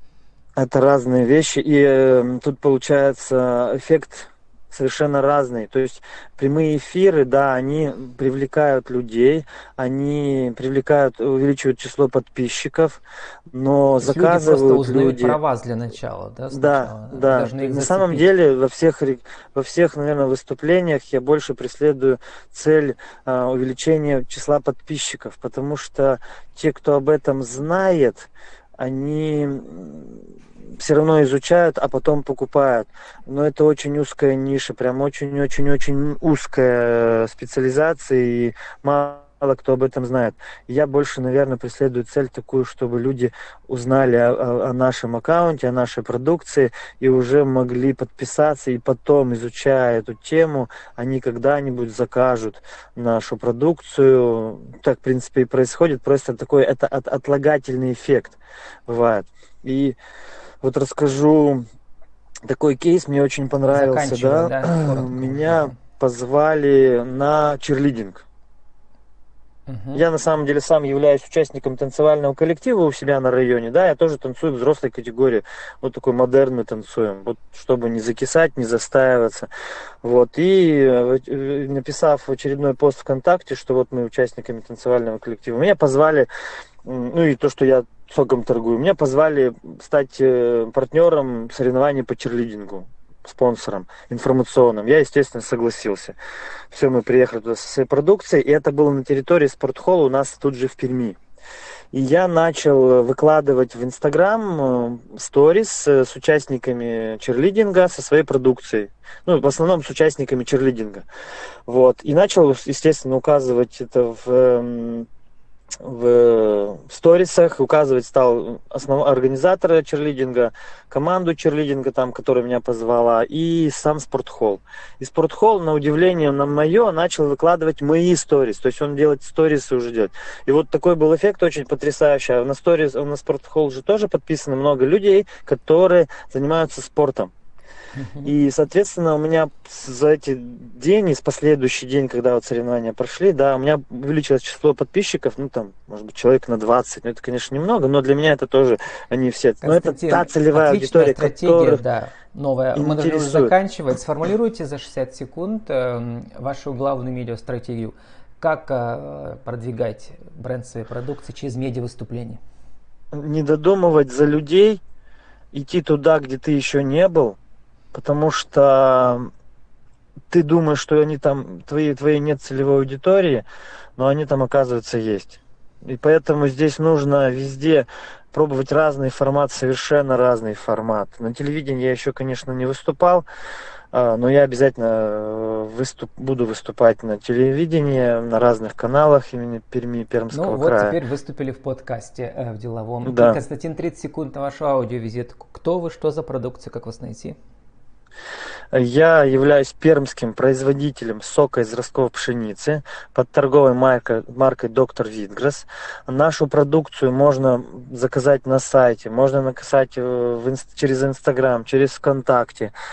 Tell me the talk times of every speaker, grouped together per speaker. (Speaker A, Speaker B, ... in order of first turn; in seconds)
Speaker A: 0.6-15.4, 16.5-60.0, 60.6-61.6, 62.5-68.2, 69.9-79.5, 80.0-86.3, 86.8-96.2, 96.7-101.2, 101.9-111.0, 111.7-115.1, 115.8-137.3, 138.2-151.8, 152.7-153.5, 163.1-164.8, 165.5-167.4, 167.9-169.3, 170.3-173.4, 174.0-183.2, 183.9-191.0, 193.0-193.4, 198.7-212.7
Speaker B: 14.0-18.2, 63.7-65.8, 69.7-70.0, 137.9-138.3, 149.6-162.4, 190.3-197.3